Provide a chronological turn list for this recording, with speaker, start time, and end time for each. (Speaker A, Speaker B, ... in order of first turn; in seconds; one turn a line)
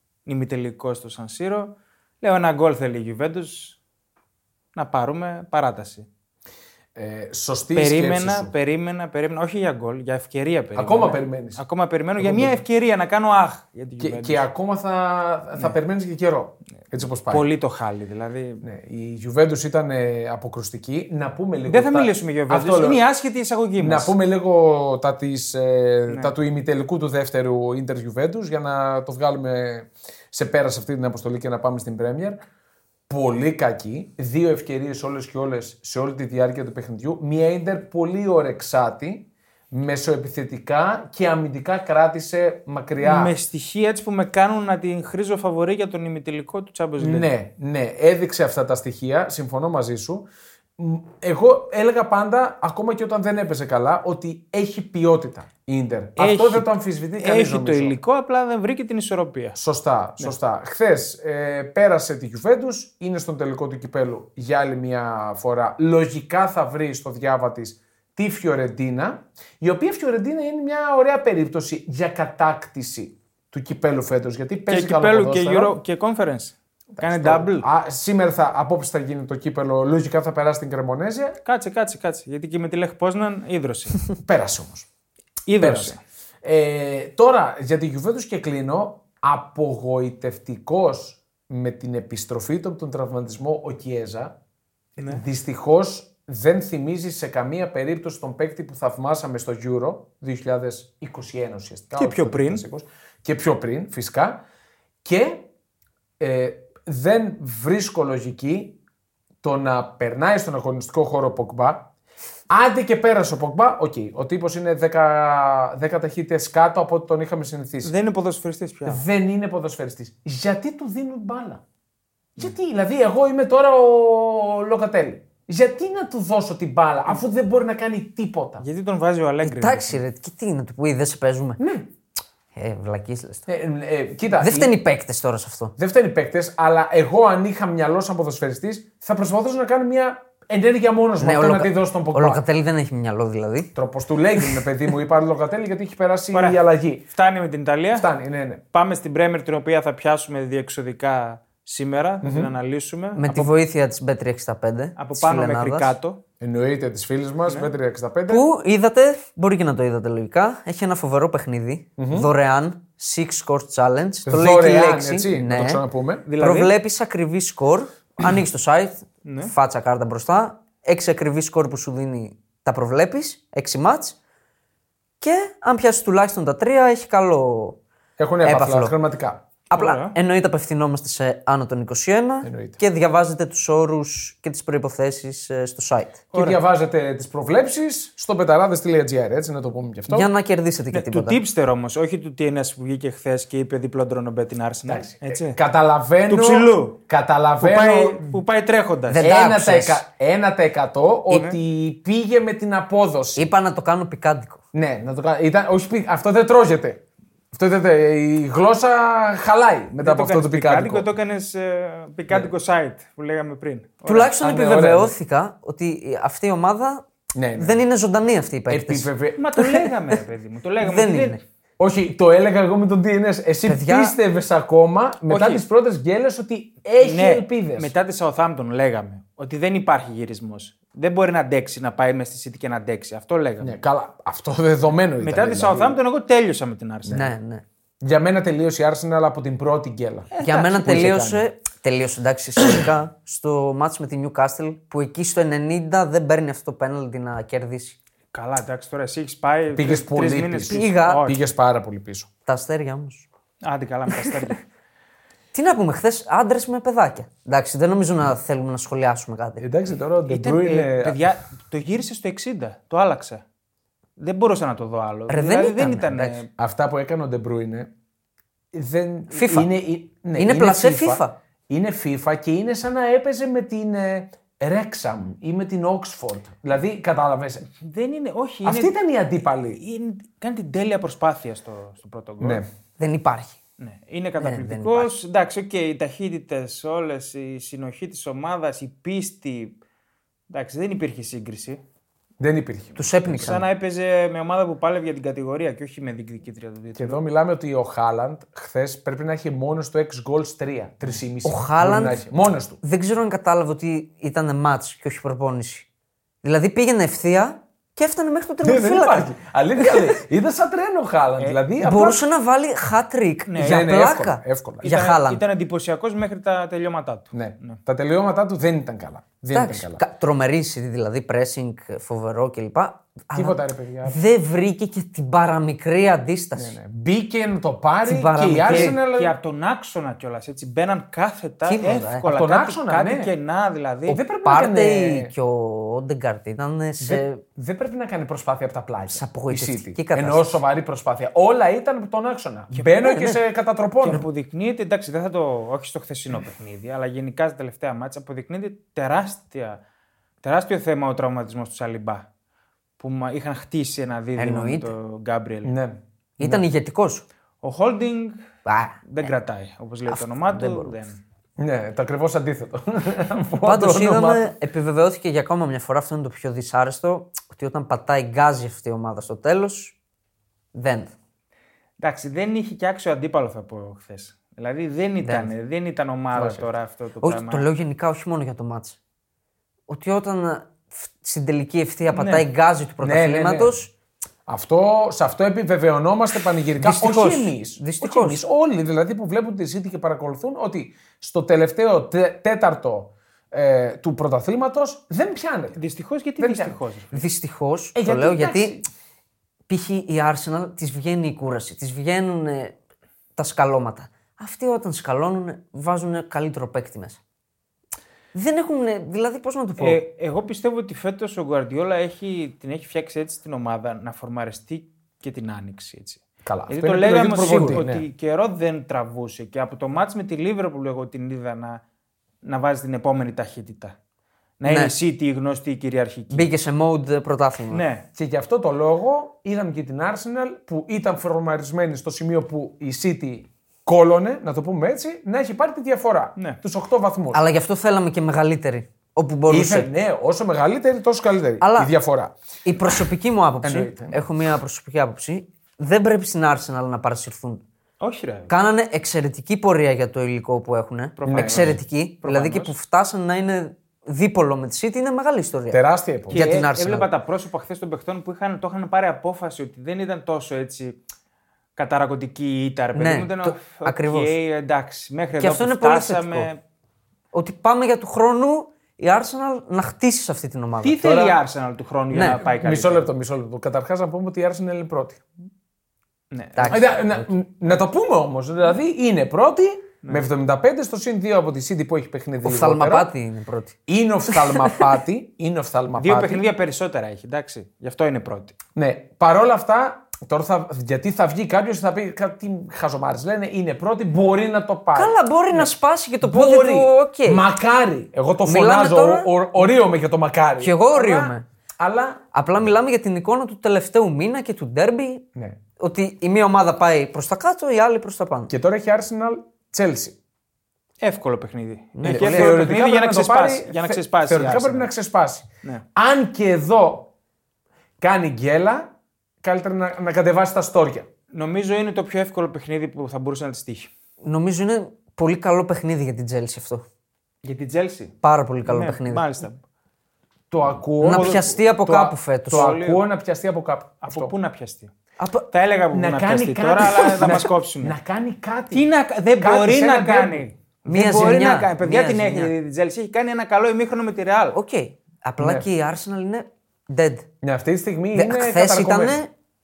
Speaker A: 0.3-3.8
Speaker A: 4.8-6.1
Speaker B: 7.0-8.5
Speaker A: 7.7-14.5
Speaker B: 10.8-11.6
Speaker B: 12.2-12.6
Speaker B: 14.0-17.5
Speaker A: 17.3-18.6
Speaker B: 18.6-23.0
Speaker A: 21.7-24.1
Speaker B: 23.8-32.4
Speaker A: 26.1-26.3
Speaker B: 33.1-43.4
Speaker A: 43.0-47.3
Speaker B: 47.0-50.3
Speaker B: 50.8-58.0
Speaker A: 56.2-59.6
Speaker B: 59.5-75.8
Speaker A: 74.7-77.7
Speaker B: 77.0-81.4
Speaker A: 81.5-84.0
Speaker B: 84.2-84.9
Speaker A: 85.5-86.0
Speaker B: 85.6-94.4
Speaker B: 95.0-104.4
Speaker A: 95.0-95.2
Speaker A: 102.0-102.6
Speaker B: 105.0-105.5
Speaker B: 106.2-108.8
Speaker B: 109.4-111.9
Speaker B: 112.5-117.9
Speaker A: 117.8-119.0
Speaker B: 118.9-121.6
Speaker B: 122.4-128.6
Speaker A: 128.6-130.0
Speaker C: 129.4-131.6
Speaker B: 131.6-131.9
Speaker C: 132.6-133.5
Speaker B: 133.5-134.7
Speaker C: 134.3-135.8
Speaker B: 135.8-142.4
Speaker C: 141.2-143.7
Speaker B: 143.8-147.1
Speaker A: 146.3-148.1
Speaker B: 147.9-148.6
Speaker A: 148.7-153.5
Speaker B: 152.2-152.5
Speaker C: 153.2-155.9
Speaker A: 155.0-156.2
Speaker B: 156.4-158.5
Speaker C: 158.3-165.8
Speaker B: 162.0-162.3
Speaker B: 164.3-166.3
Speaker A: 166.3-166.8
Speaker C: 166.4-174.2
Speaker A: 169.2-169.5
Speaker C: 175.2-177.8
Speaker B: 178.2-179.4
Speaker C: 178.4-178.9
Speaker A: 179.7-180.2
Speaker C: 179.7-186.2
Speaker B: 182.4-182.8
Speaker A: 186.3-186.6
Speaker B: 186.3-190.3
Speaker C: 190.1-191.4
Speaker A: 190.9-195.6
Speaker B: 194.9-198.3
Speaker A: 196.3-197.0
Speaker A: 197.6-199.2
Speaker C: 199.1-200.0
Speaker B: 199.2-203.4
Speaker A: 201.3-201.6
Speaker C: 203.4-204.6
Speaker B: 204.7-207.0
Speaker B: 207.5-211.1
Speaker A: 210.0-214.3
Speaker C: 214.1-217.1
Speaker B: 214.4-215.2
Speaker B: 217.3-217.8
Speaker C: 217.6-219.9
Speaker B: 218.7-219.6
Speaker A: 219.4-221.4
Speaker C: 220.8-221.4
Speaker B: 221.8-227.9
Speaker C: 223.7-224.2
Speaker A: 225.3-225.6
Speaker A: 227.0-233.8
Speaker B: 233.6-236.0
Speaker A: 235.2-237.3
Speaker C: 237.1-237.6
Speaker B: 238.0-241.4
Speaker A: 240.3-240.9
Speaker C: 240.4-248.0
Speaker A: 248.3-251.4
Speaker B: 249.7-252.3
Speaker C: 250.7-251.2
Speaker C: 252.5-253.3
Speaker A: 253.6-254.6
Speaker C: 255.5-259.6
Speaker B: 259.6-261.2
Speaker A: 260.3-263.4
Speaker A: 264.2-266.5
Speaker C: 265.3-266.4
Speaker B: 266.6-267.9
Speaker B: 268.7-277.6
Speaker C: 269.3-269.7
Speaker C: 270.4-271.3
Speaker A: 277.7-279.0
Speaker B: 278.6-279.8
Speaker A: 279.7-282.6
Speaker B: 282.4-282.7
Speaker C: 283.0-283.6
Speaker A: 283.8-289.8
Speaker C: 284.4-285.1
Speaker A: 290.5-291.8
Speaker B: 292.4-293.7
Speaker C: 293.0-293.6
Speaker A: 293.4-297.2
Speaker B: 297.0-302.8
Speaker C: 301.4-302.2
Speaker C: 302.8-305.9
Speaker C: 306.4-309.3
Speaker B: 308.6-312.2
Speaker C: 309.8-310.1
Speaker C: 311.8-315.4
Speaker A: 313.5-313.9
Speaker B: 313.6-314.9
Speaker A: 314.8-317.8
Speaker B: 317.3-320.0
Speaker C: 319.5-326.8
Speaker B: 323.4-324.2
Speaker B: 326.6-329.4
Speaker C: 328.1-329.0
Speaker A: 328.7-334.2
Speaker C: 331.7-332.2
Speaker B: 332.2-333.3
Speaker B: 334.1-335.3
Speaker C: 334.4-337.4
Speaker B: 337.0-344.2
Speaker C: 339.1-340.6
Speaker C: 342.9-343.4
Speaker A: 344.0-349.8
Speaker A: 350.4-352.2
Speaker A: 353.0-355.8
Speaker C: 354.4-354.9
Speaker B: 355.6-356.6
Speaker C: 356.4-357.2
Speaker A: 357.6-358.4
Speaker C: 358.6-359.3
Speaker A: 359.1-361.2
Speaker C: 360.1-361.0
Speaker B: 361.6-364.5
Speaker C: 363.6-369.9
Speaker C: 370.7-371.1
Speaker A: 372.0-377.7
Speaker C: 375.2-375.5
Speaker B: 376.3-376.6
Speaker C: 377.2-379.0
Speaker C: 379.9-383.9
Speaker A: 382.1-382.5
Speaker B: 383.0-383.8
Speaker B: 384.5-395.8
Speaker C: 386.8-388.4
Speaker A: 395.8-397.3
Speaker B: 396.4-396.8
Speaker C: 397.1-398.8
Speaker B: 397.9-398.8
Speaker C: 399.7-402.8
Speaker C: 403.4-407.2
Speaker C: 408.3-410.0
Speaker A: 409.8-421.8
Speaker B: 416.4-418.1
Speaker C: 417.3-417.8
Speaker A: 422.4-423.9
Speaker A: 424.6-426.5
Speaker C: 424.7-424.9
Speaker C: 426.3-427.8
Speaker A: 427.7-428.1
Speaker B: 428.1-437.4
Speaker C: 437.3-439.9
Speaker B: 439.5-443.0
Speaker C: 441.6-441.9
Speaker C: 442.6-447.6
Speaker B: 443.6-444.3
Speaker A: 448.0-448.5
Speaker C: 448.5-457.1
Speaker A: 451.2-452.8
Speaker B: 451.3-451.8
Speaker B: 455.7-456.4
Speaker A: 456.3-461.0
Speaker A: 461.8-466.6
Speaker C: 462.9-464.4
Speaker C: 465.4-466.5
Speaker C: 467.3-471.0
Speaker A: 470.8-473.1
Speaker B: 471.0-471.4
Speaker C: 472.1-472.4
Speaker B: 472.2-475.2
Speaker A: 476.3-477.0
Speaker C: 476.6-477.3
Speaker B: 476.7-483.1
Speaker C: 482.4-483.8
Speaker B: 483.9-486.4
Speaker C: 484.4-484.7
Speaker A: 485.9-488.6
Speaker B: 488.8-495.7
Speaker C: 494.9-497.4
Speaker B: 496.2-502.3
Speaker C: 498.5-499.3
Speaker C: 500.6-501.4
Speaker C: 502.3-505.2
Speaker C: 505.8-508.5
Speaker B: 508.5-510.2
Speaker A: 511.0-514.9
Speaker C: 511.9-512.6
Speaker B: 512.0-517.1
Speaker B: 518.0-518.9
Speaker B: 519.4-521.1
Speaker A: 521.3-523.9
Speaker C: 524.2-526.8
Speaker A: 527.4-529.6
Speaker C: 528.2-529.4
Speaker B: 530.5-534.3
Speaker C: 531.0-532.8
Speaker A: 531.1-531.6
Speaker A: 532.5-533.0
Speaker A: 534.0-534.9
Speaker C: 535.2-535.5
Speaker A: 535.5-538.0
Speaker B: 535.9-540.5
Speaker A: 538.7-544.6
Speaker C: 540.9-542.5
Speaker C: 544.5-547.3
Speaker B: 545.4-545.7
Speaker B: 547.4-549.2
Speaker C: 548.1-549.3